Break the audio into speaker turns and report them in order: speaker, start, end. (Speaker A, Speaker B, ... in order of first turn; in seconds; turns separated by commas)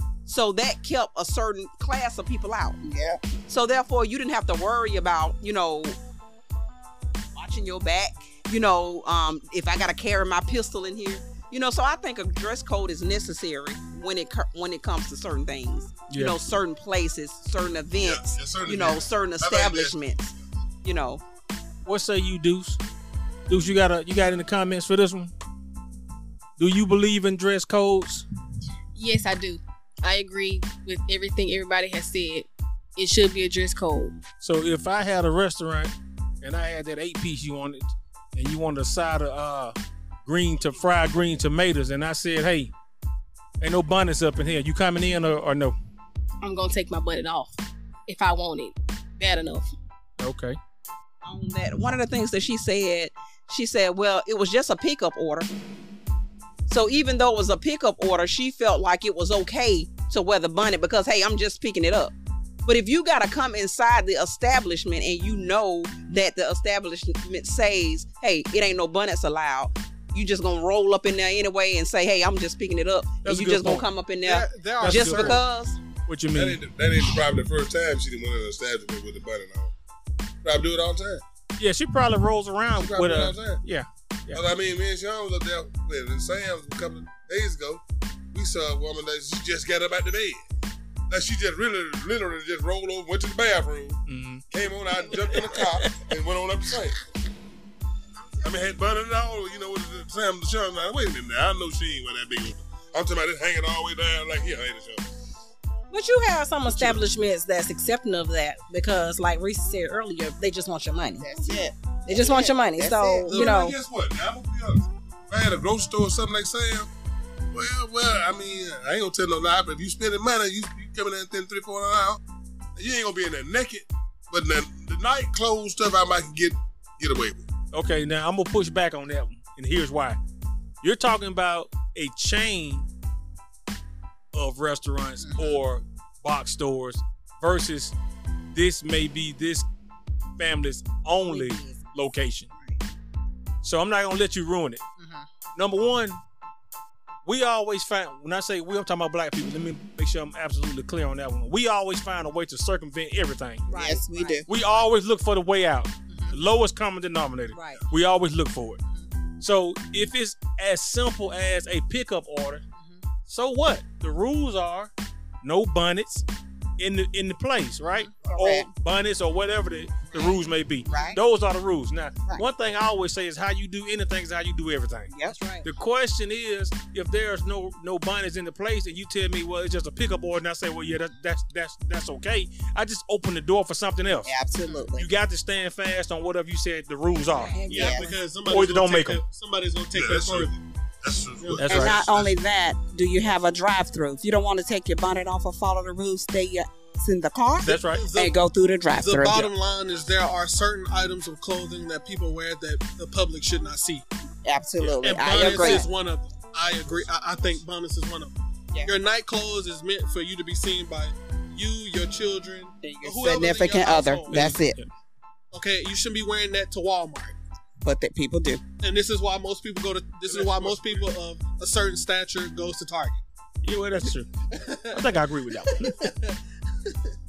Speaker A: 0.3-2.8, Speaker B: 2.8-3.2, Speaker A: 3.5-6.0, Speaker A: 7.3-20.3, Speaker C: 16.1-16.4, Speaker D: 18.0-20.4, Speaker A: 20.8-21.2, Speaker C: 21.9-22.8, Speaker C: 23.5-25.3, Speaker C: 26.6-28.2, Speaker E: 28.9-34.1, Speaker C: 34.4-42.7, Speaker C: 43.6-45.7, Speaker E: 46.4-47.6, Speaker E: 48.1-49.7, Speaker C: 50.2-50.6, Speaker A: 51.2-55.5, Speaker A: 56.7-62.1, Speaker A: 62.7-75.8, Speaker C: 73.2-73.9, Speaker F: 74.2-75.4, Speaker C: 74.8-75.4, Speaker C: 76.1-76.6, Speaker D: 76.3-79.7, Speaker D: 80.4-81.2, Speaker C: 81.6-84.4, Speaker D: 82.7-83.6, Speaker D: 84.3-87.8, Speaker D: 88.3-90.4, Speaker D: 91.1-94.0, Speaker C: 94.1-94.5, Speaker D: 94.5-97.1, Speaker C: 95.2-96.0, Speaker D: 98.4-105.2, Speaker G: 105.9-111.3, Speaker D: 106.7-107.0, Speaker B: 111.2-113.3, Speaker G: 112.1-113.8, Speaker F: 113.3-113.6, Speaker D: 113.3-116.9, Speaker D: 117.5-122.2, Speaker D: 122.8-127.4, Speaker C: 127.7-130.2, Speaker C: 130.8-132.9, Speaker C: 134.3-137.9, Speaker G: 135.2-135.5, Speaker C: 138.5-139.7, Speaker C: 140.4-142.5, Speaker G: 141.2-141.8, Speaker C: 143.6-144.8, Speaker G: 145.0-145.3, Speaker C: 145.6-146.2, Speaker C: 147.3-153.7, Speaker G: 153.7-154.7, Speaker B: 153.7-154.5, Speaker C: 154.5-158.8, Speaker G: 156.1-156.4, Speaker G: 157.5-157.8, Speaker C: 159.4-162.6, Speaker G: 162.8-163.0, Speaker C: 163.3-164.9, Speaker C: 165.4-166.2, Speaker C: 166.8-175.1, Speaker B: 168.2-168.7, Speaker B: 170.1-171.2, Speaker G: 170.8-171.2, Speaker B: 175.1-175.4, Speaker G: 175.2-175.7, Speaker C: 175.6-184.3, Speaker B: 184.2-185.1, Speaker C: 185.0-187.6, Speaker G: 187.5-188.2, Speaker F: 187.7-190.6, Speaker B: 187.7-188.1, Speaker C: 188.5-189.2, Speaker D: 189.9-192.3, Speaker F: 191.4-191.7, Speaker C: 191.6-192.0, Speaker B: 191.7-199.5, Speaker C: 197.6-198.1, Speaker F: 197.7-198.3, Speaker F: 198.9-204.0, Speaker B: 204.4-205.9, Speaker F: 205.0-214.6, Speaker G: 205.5-205.8, Speaker D: 206.8-207.6, Speaker B: 212.8-214.8, Speaker C: 214.3-214.9, Speaker F: 215.5-217.4, Speaker B: 217.8-218.6, Speaker F: 218.8-223.2, Speaker D: 220.2-221.1, Speaker C: 223.6-224.3, Speaker F: 224.5-226.9, Speaker C: 224.9-226.1